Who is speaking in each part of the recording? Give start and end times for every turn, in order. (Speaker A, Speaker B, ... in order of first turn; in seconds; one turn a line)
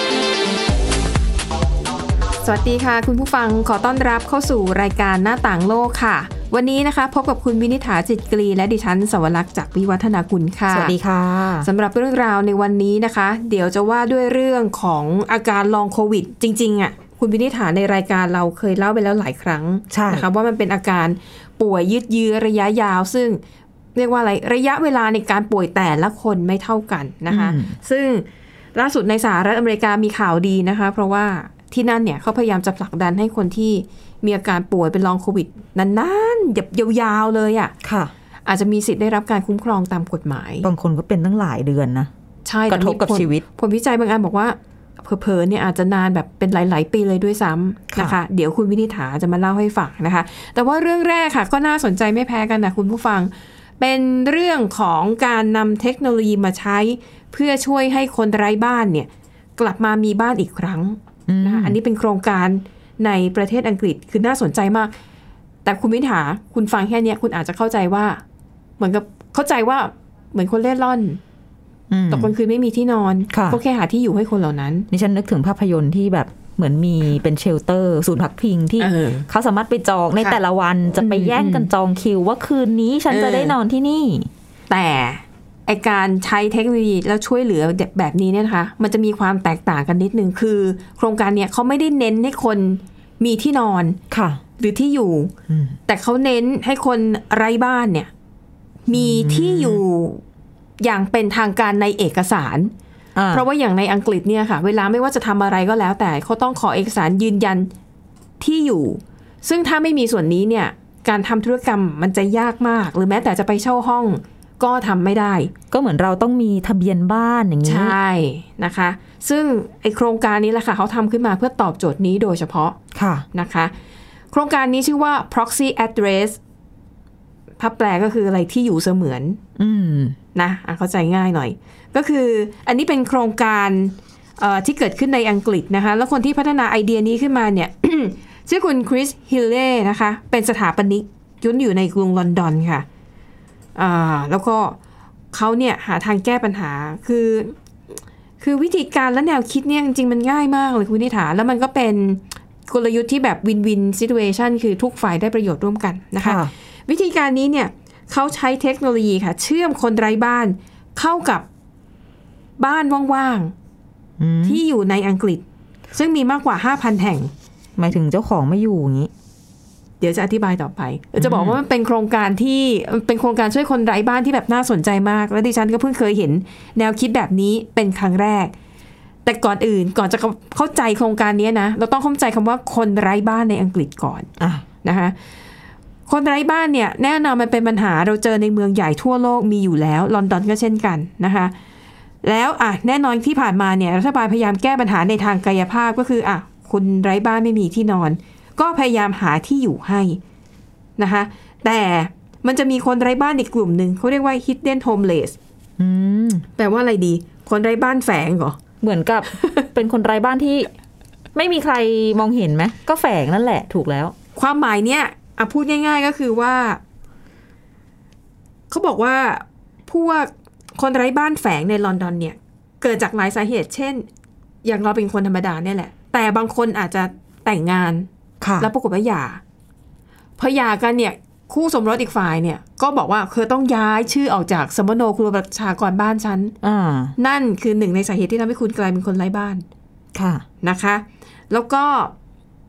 Speaker A: 2.4-10.9
Speaker B: 10.7-11.7
Speaker A: 11.6-23.4
Speaker B: 19.9-20.3
Speaker A: 23.9-37.7
Speaker B: 27.3-27.7
Speaker B: 37.8-38.1
Speaker A: 38.5-40.7
Speaker B: 40.6-42.1
Speaker A: 42.5-64.9
Speaker B: 42.7-43.4
Speaker B: 61.3-61.8
Speaker A: 65.7-68.2
Speaker A: 68.8-71.2
Speaker B: 71.9-72.3
Speaker A: 72.1-74.9
Speaker B: 73.3-73.6
Speaker B: 74.9-84.3
Speaker A: 78.8-79.3
Speaker A: 81.0-81.7
Speaker A: 83.1-83.6
Speaker A: 84.7-94.0
Speaker B: 94.1-94.4
Speaker A: 94.6-95.3
Speaker B: 95.5-95.8
Speaker A: 95.9-98.1
Speaker A: 98.9-100.2
Speaker B: 98.9-99.8
Speaker A: 100.8-102.7
Speaker B: 103.2-103.5
Speaker A: 103.3-107.7
Speaker A: 108.4-115.5
Speaker B: 115.7-118.0
Speaker A: 117.7-122.8
Speaker B: 122.9-123.3
Speaker A: 123.3-123.7
Speaker A: 124.3-126.4
Speaker A: 127.6-129.4
Speaker B: 129.6-130.2
Speaker A: 130.3-142.9
Speaker A: 143.8-144.8
Speaker A: 145.3-147.6
Speaker A: 148.4-161.5
Speaker B: 156.2-156.5
Speaker A: 162.6-163.5
Speaker B: 164.2-164.6
Speaker A: 164.4-165.4
Speaker A: 165.9-167.3
Speaker B: 167.8-169.1
Speaker A: 170.0-178.5
Speaker B: 171.2-171.6
Speaker A: 179.2-184.3
Speaker B: 184.4-184.7
Speaker A: 184.8-185.2
Speaker A: 186.1-191.5
Speaker A: 192.2-200.2
Speaker A: 201.0-205.4
Speaker B: 205.8-206.5
Speaker A: 206.6-208.6
Speaker B: 208.8-210.7
Speaker B: 211.3-214.2
Speaker A: 214.4-216.8
Speaker A: 218.7-224.1
Speaker A: 224.6-228.1
Speaker B: 228.4-228.7
Speaker A: 228.6-229.4
Speaker A: 230.4-236.6
Speaker B: 236.6-237.2
Speaker A: 237.2-239.7
Speaker B: 240.2-240.5
Speaker A: 240.6-242.1